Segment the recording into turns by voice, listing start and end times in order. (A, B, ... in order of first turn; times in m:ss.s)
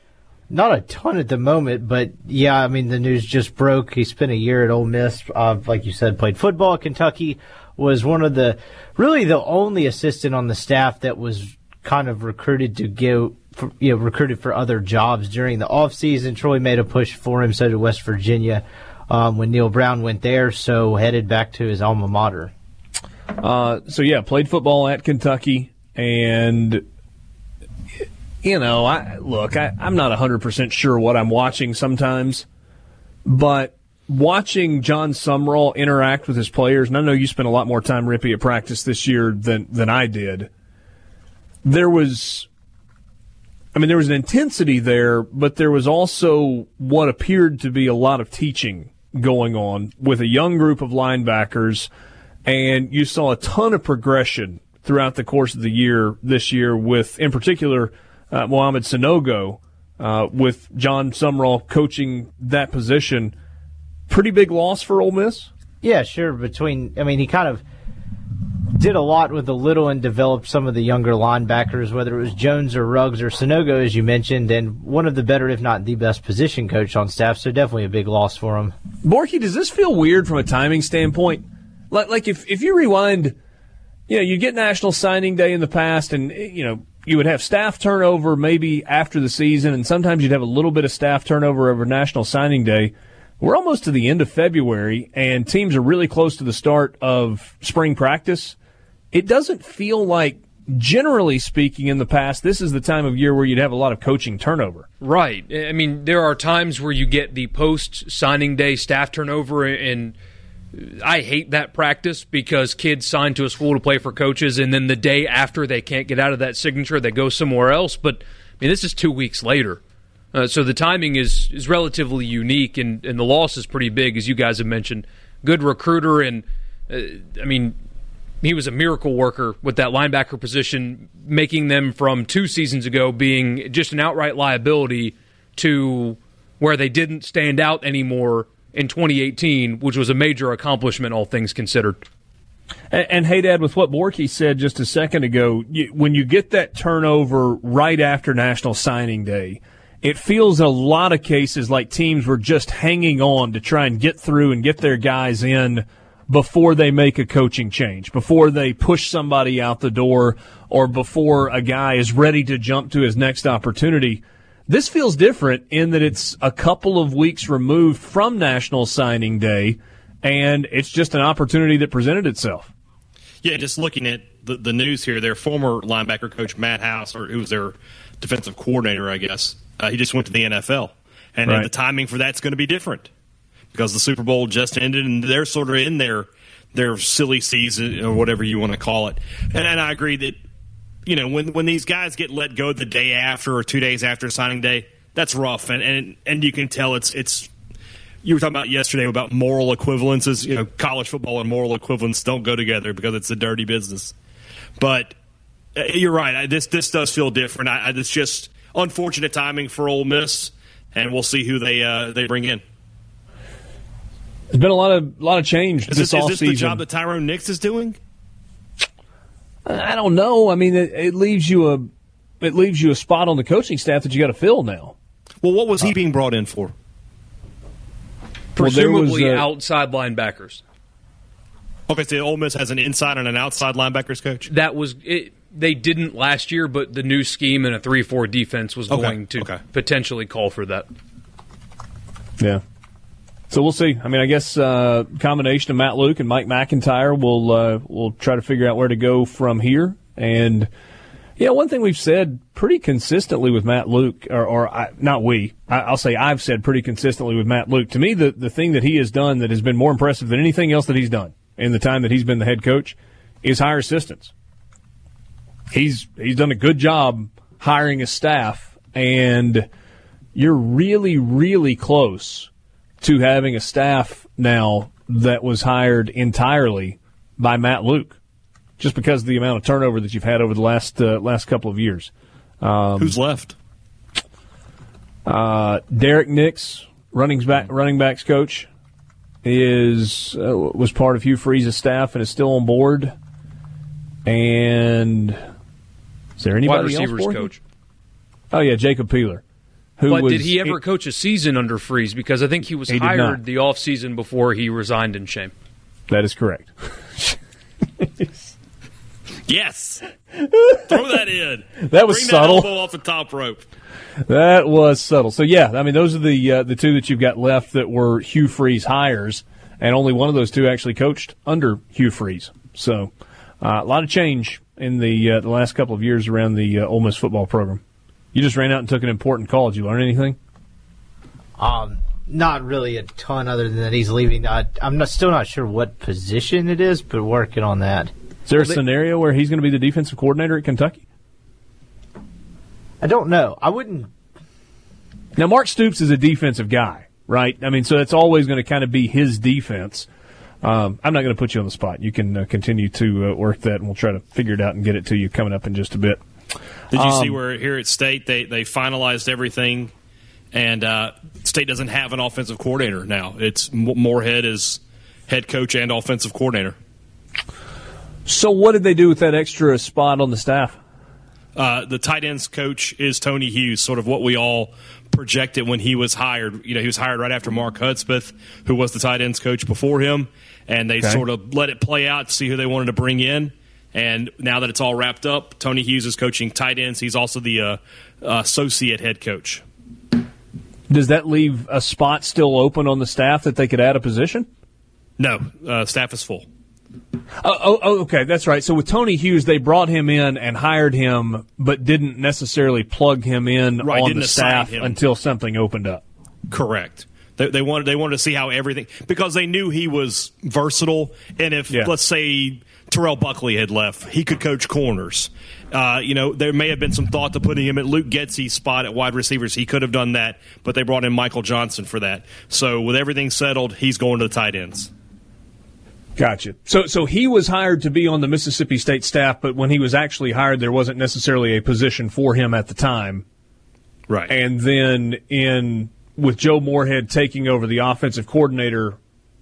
0:00.5-0:22.5 A
0:23.4-0:26.8 B
0:28.4-0:32.5 B
0:33.2-0:40.5 B
0:41.6-0:42.5 B
0:43.7-0:51.9 B
0:52.4-1:03.4 B
1:04.1-1:05.5 B
1:05.8-1:07.6 A
1:08.7-1:18.7 A
1:19.0-1:23.4 B
1:24.1-1:38.6 B
1:39.1-1:44.9 B
1:45.0-1:50.2 C
1:50.7-1:59.8 C
2:00.3-2:07.8 C
2:08.4-2:22.0 C
2:22.9-2:52.7 B
2:53.4-3:03.1 D
3:03.7-3:10.4 D
3:11.1-3:17.5 D
3:18.2-3:24.1 D
3:24.8-3:25.2 D
3:25.8-3:32.6 D
3:34.5-3:36.8 B
3:35.9-3:38.0 D
3:39.7-3:41.9 B
3:42.4-3:45.0 B
3:45.4-3:46.7 D
3:48.6-3:49.5 B
3:48.6-3:50.6 C
3:51.9-3:54.5 D
3:54.5-4:00.9 C
3:58.9-3:59.6 D
4:03.5-4:10.7 B
4:11.4-4:24.3 B
4:25.7-4:29.7 B
4:30.4-4:32.5 B
4:33.0-4:38.2 B
4:38.8-4:43.2 B
4:43.0-4:43.6 D
4:45.3-4:48.7 B
4:49.4-4:53.1 B
4:54.3-4:55.4 B
4:56.4-4:57.5 B
4:56.6-4:57.6 C
4:58.5-4:59.4 B
5:00.0-5:00.8 B
5:00.1-5:05.5 C
5:02.9-5:03.4 B
5:06.1-5:07.4 B
5:08.0-5:08.3 B
5:09.5-5:10.0 D
5:10.4-5:11.0 B
5:10.8-5:13.7 D
5:11.8-5:12.7 B
5:14.2-5:27.8 B
5:28.3-5:30.4 B
5:31.6-5:38.1 A
5:38.5-5:41.0 B
5:43.0-5:44.1 A
5:45.4-5:50.1 B
5:50.6-5:56.2 B
5:56.9-5:59.9 D
5:56.9-5:57.4 B
6:00.5-6:06.8 D
6:08.3-6:10.8 B
6:11.6-6:29.6 D
6:30.9-6:34.5 B
6:35.2-6:36.4 D
6:37.4-6:46.0 B
6:43.8-6:45.0 D
6:46.5-7:04.9 D
7:06.2-7:13.2 B
7:14.3-7:19.0 B